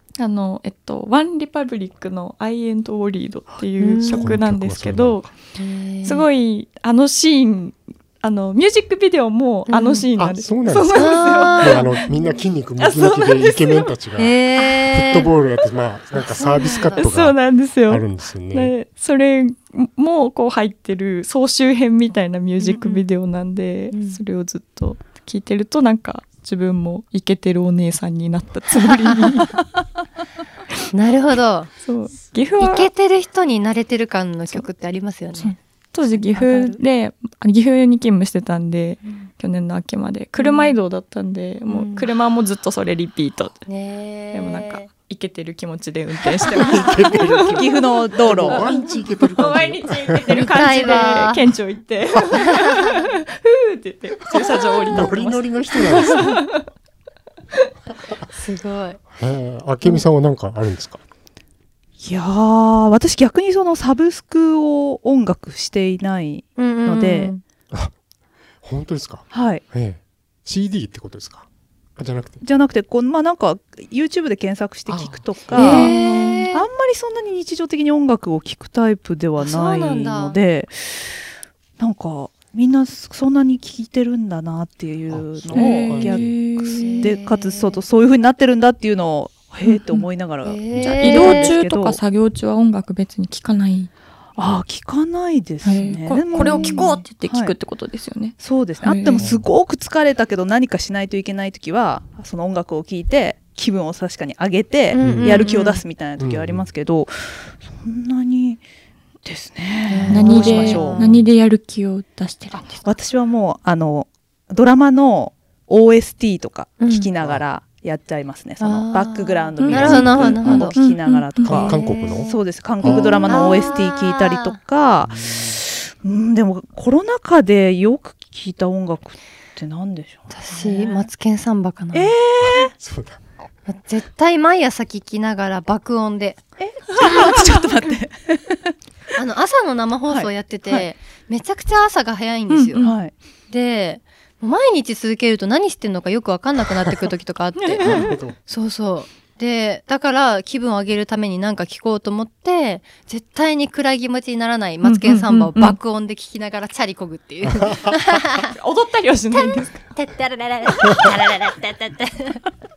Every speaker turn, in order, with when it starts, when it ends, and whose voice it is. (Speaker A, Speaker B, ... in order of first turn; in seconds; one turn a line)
Speaker A: 0.2-5.3
Speaker B: 3.8-4.4
Speaker C: 4.0-5.3
Speaker B: 5.6-6.2
Speaker A: 6.0-13.9
Speaker B: 9.7-10.1
Speaker C: 10.2-18.7
Speaker B: 10.9-11.9
Speaker B: 14.2-15.3
Speaker B: 16.1-17.1
Speaker A: 16.9-29.6
Speaker B: 22.7-23.0
Speaker B: 23.9-24.2
Speaker B: 30.9-31.7
Speaker A: 31.8-32.9
Speaker B: 32.6-35.5
Speaker A: 35.4-43.6
Speaker D: 36.3-36.8
Speaker B: 40.4-40.7
Speaker B: 41.7-42.1
Speaker B: 43.6-44.9
Speaker A: 44.3-47.8
Speaker C: 46.4-50.4
Speaker D: 47.5-48.6
Speaker A: 48.5-56.6
Speaker B: 50.3-51.4
Speaker B: 52.4-53.0
Speaker C: 54.9-56.4
Speaker B: 58.3-59.0
Speaker C: 59.1-61.0
Speaker D: 62.0-67.3
Speaker B: 66.6-67.4
Speaker C: 68.6-71.5
Speaker D: 69.3-69.6
Speaker C: 72.0-72.4
Speaker D: 72.4-81.2
Speaker C: 74.9-75.8
Speaker B: 75.5-76.7
Speaker A: 75.5-76.4
Speaker B: 79.4-80.4
Speaker D: 81.8-92.0
Speaker C: 85.1-86.4
Speaker A: 85.5-87.1
Speaker B: 86.7-87.8
Speaker A: 89.6-90.1
Speaker B: 90.4-91.5
Speaker C: 90.7-91.0
Speaker A: 91.0-93.9
Speaker D: 94.3-97.5
Speaker A: 95.6-99.3
Speaker B: 96.3-96.9
Speaker D: 98.4-108.6
Speaker C: 99.2-99.5
Speaker B: 104.9-105.8
Speaker C: 105.0-105.4
Speaker C: 106.2-106.7
Speaker D: 109.2-111.1
Speaker B: 109.9-111.2
Speaker A: 110.1-112.9
Speaker D: 112.5-131.1
Speaker B: 116.8-117.1
Speaker B: 118.6-120.8
Speaker A: 119.6-121.7
Speaker C: 119.7-120.7
Speaker C: 121.4-122.3
Speaker B: 121.6-124.6
Speaker C: 122.8-123.5
Speaker C: 125.0-125.6
Speaker B: 130.3-132.1
Speaker D: 131.9-132.7
Speaker C: 132.4-133.2
Speaker B: 133.7-136.4
Speaker D: 136.6-138.7
Speaker B: 137.1-137.4
Speaker B: 139.1-142.8
Speaker D: 140.1-140.9
Speaker A: 142.5-143.0
Speaker D: 142.8-143.1
Speaker B: 143.5-158.5
Speaker A: 147.6-148.2
Speaker C: 147.8-148.4
Speaker A: 154.8-155.8
Speaker A: 158.2-159.8
Speaker B: 159.3-162.4